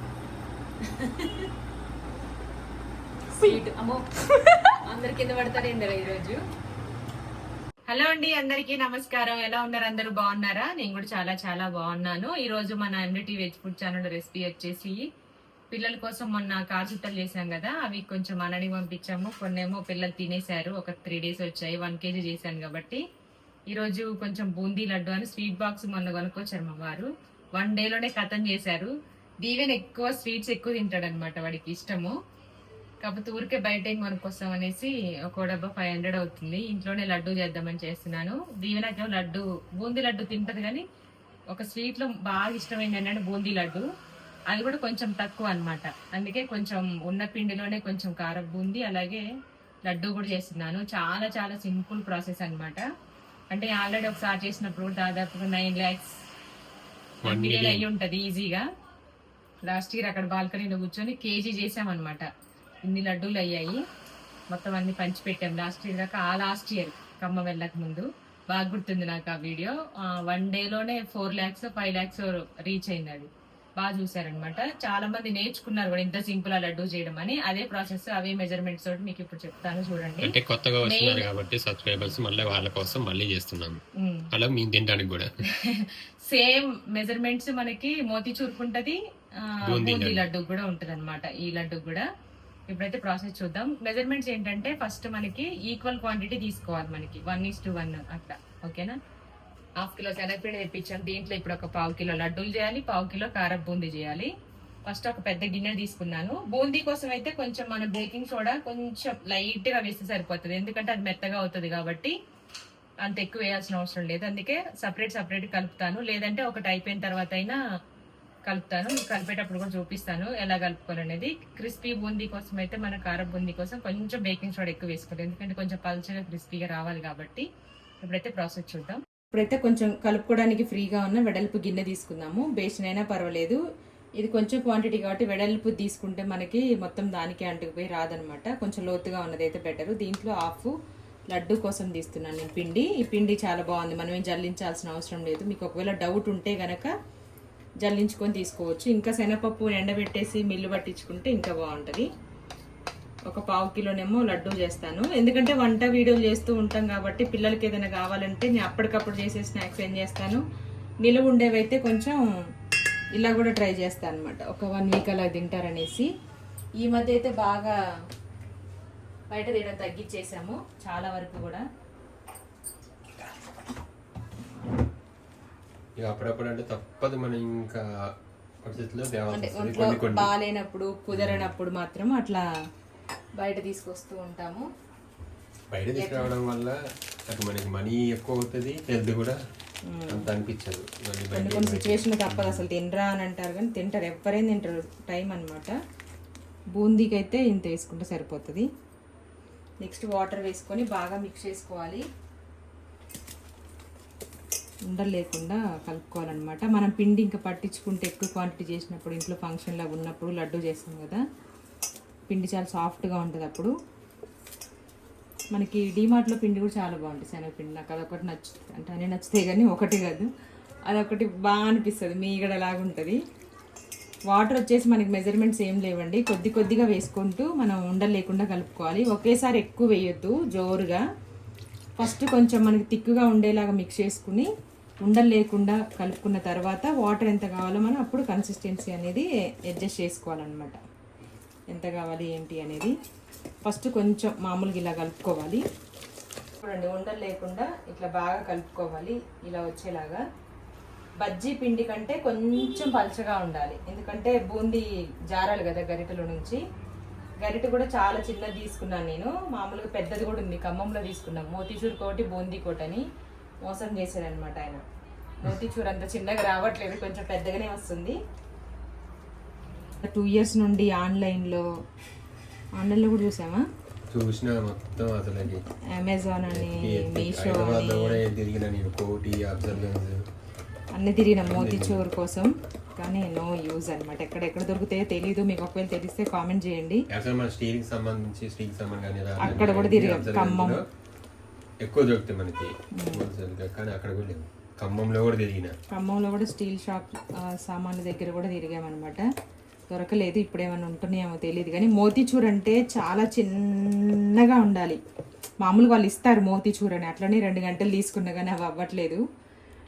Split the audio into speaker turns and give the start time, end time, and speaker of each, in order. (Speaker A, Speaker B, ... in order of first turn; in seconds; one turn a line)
Speaker A: 0.8-1.5
Speaker A: 3.3-6.4
Speaker A: 7.9-15.0
Speaker A: 15.7-23.0
Speaker A: 23.7-32.1
Speaker A: 33.0-40.8
Speaker A: 41.5-43.9
Speaker A: 44.5-49.2
Speaker A: 49.9-52.8
Speaker A: 53.5-56.1
Speaker B: 57.2-57.8
Speaker A: 57.2-58.6
Speaker A: 59.7-62.2
Speaker A: 62.9-63.8
Speaker A: 64.5-81.3
Speaker B: 80.2-83.8
Speaker A: 84.0-84.3
Speaker B: 84.3-85.3
Speaker A: 85.6-92.0
Speaker B: 89.7-90.2
Speaker A: 92.7-99.0
Speaker A: 99.8-104.3
Speaker A: 104.9-112.1
Speaker A: 113.0-117.6
Speaker A: 118.5-127.5
Speaker A: 128.0-133.6
Speaker A: 134.2-140.7
Speaker A: 141.3-146.9
Speaker A: 147.8-152.1
Speaker A: 153.3-160.4
Speaker A: 161.0-162.2
Speaker A: 163.2-166.1
Speaker A: 166.8-167.7
Speaker A: 169.3-171.6
Speaker B: 176.0-177.8
Speaker B: 178.6-180.3
Speaker A: 179.3-182.4
Speaker B: 181.1-181.5
Speaker A: 183.4-184.7
Speaker B: 185.7-186.8
Speaker A: 185.9-186.3
Speaker B: 187.3-189.4
Speaker A: 189.9-190.3
Speaker B: 190.1-192.6
Speaker A: 191.3-195.7
Speaker A: 196.8-198.7
Speaker A: 199.8-202.0
Speaker A: 204.9-211.2
Speaker A: 212.3-213.7
Speaker A: 215.5-220.3
Speaker A: 220.9-223.2
Speaker A: 224.3-231.0
Speaker A: 232.0-234.5
Speaker A: 235.0-240.8
Speaker A: 241.7-242.9
Speaker A: 243.6-245.6
Speaker A: 246.6-250.2
Speaker A: 251.2-256.6
Speaker A: 257.4-263.0
Speaker A: 263.6-264.8
Speaker A: 265.4-268.2
Speaker A: 270.0-271.6
Speaker A: 272.8-273.6
Speaker B: 274.1-275.6
Speaker A: 275.9-278.2
Speaker B: 276.5-280.2
Speaker A: 280.9-287.0
Speaker B: 281.4-282.0
Speaker B: 287.1-290.8
Speaker A: 289.4-290.8
Speaker B: 291.8-295.7
Speaker A: 293.0-293.2
Speaker A: 295.9-299.2
Speaker A: 299.9-305.0
Speaker A: 305.6-309.2